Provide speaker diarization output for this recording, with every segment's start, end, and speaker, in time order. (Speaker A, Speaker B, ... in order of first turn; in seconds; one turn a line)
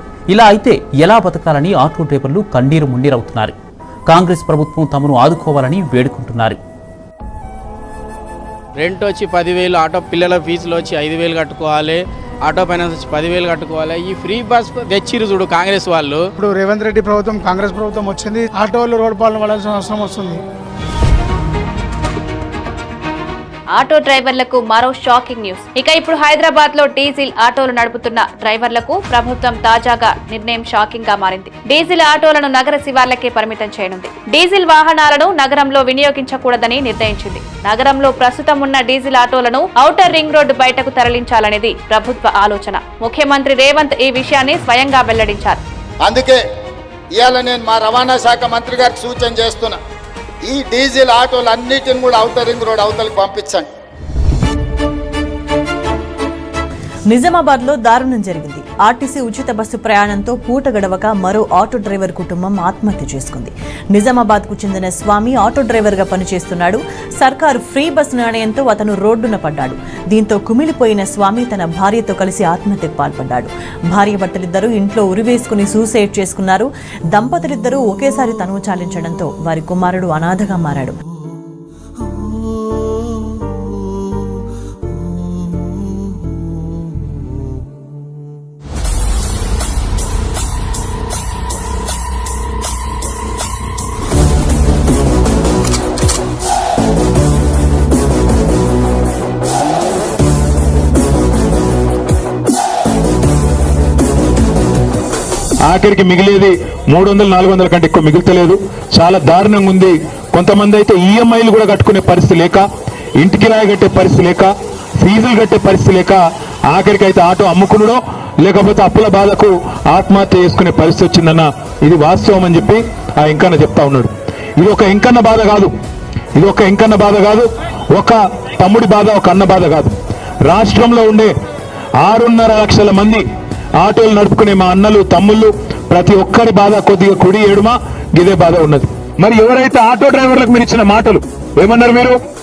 Speaker A: 0.3-3.5
Speaker A: 4.1-6.6
Speaker B: 8.8-16.3
Speaker C: 16.6-20.3
Speaker D: 23.7-45.6
Speaker E: 46.0-46.4
Speaker E: 47.1-49.8
Speaker E: 50.4-53.7
Speaker F: 57.1-81.0
Speaker G: 105.7-112.6
Speaker G: 113.2-125.7
Speaker G: 126.3-131.3
Speaker G: 132.0-133.2
Speaker G: 133.8-142.2